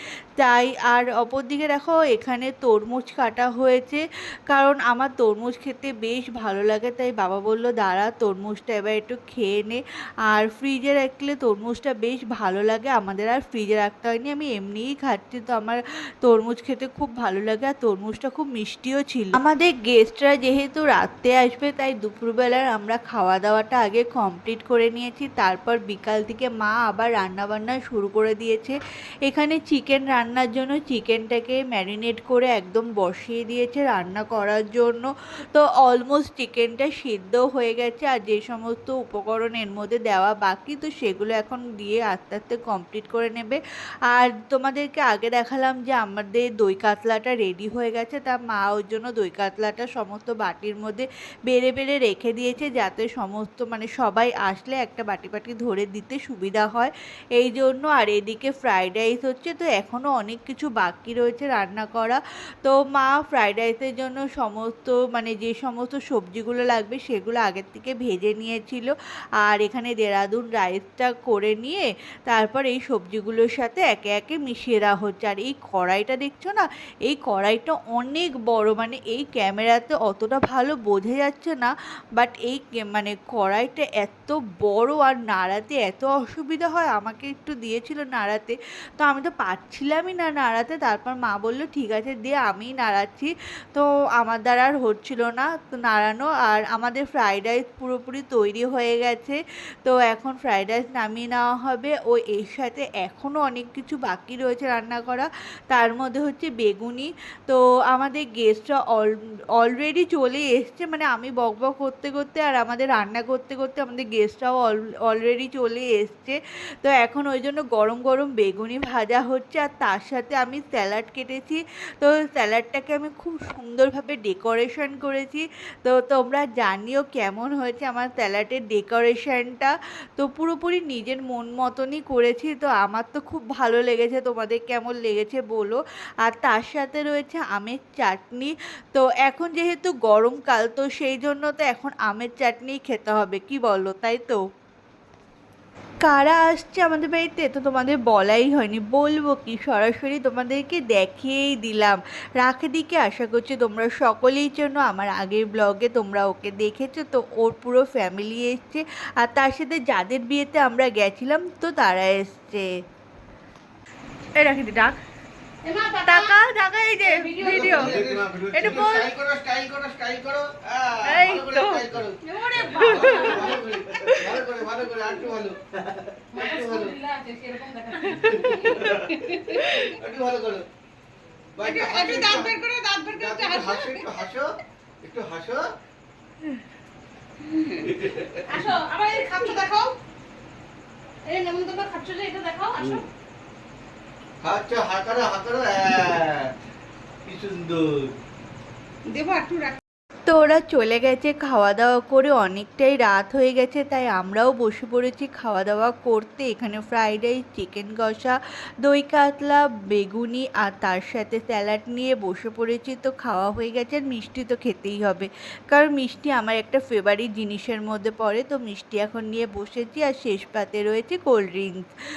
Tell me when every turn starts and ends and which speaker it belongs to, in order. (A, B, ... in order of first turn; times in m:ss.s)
0:00.4-2:24.4 A
2:26.0-2:42.7 A
2:44.4-2:45.0 A
2:45.6-2:46.4 B
2:46.0-2:48.0 A
2:47.0-2:48.1 B
2:47.4-2:57.0 C
2:48.5-2:49.1 A
2:51.0-2:51.9 A
2:52.2-2:53.6 B
2:52.6-2:54.3 A
2:56.3-2:59.6 B
2:58.1-2:59.9 A
2:58.2-2:59.2 C
2:59.8-3:00.7 C
3:01.6-3:05.6 C
3:01.6-3:04.1 B
3:07.5-3:07.8 B
3:07.8-3:08.4 C
3:08.5-3:10.0 B
3:11.3-3:13.1 B
3:12.8-3:13.0 C
3:14.4-3:16.5 C
3:17.3-3:18.1 C
3:19.1-3:19.8 B
3:20.3-3:41.8 A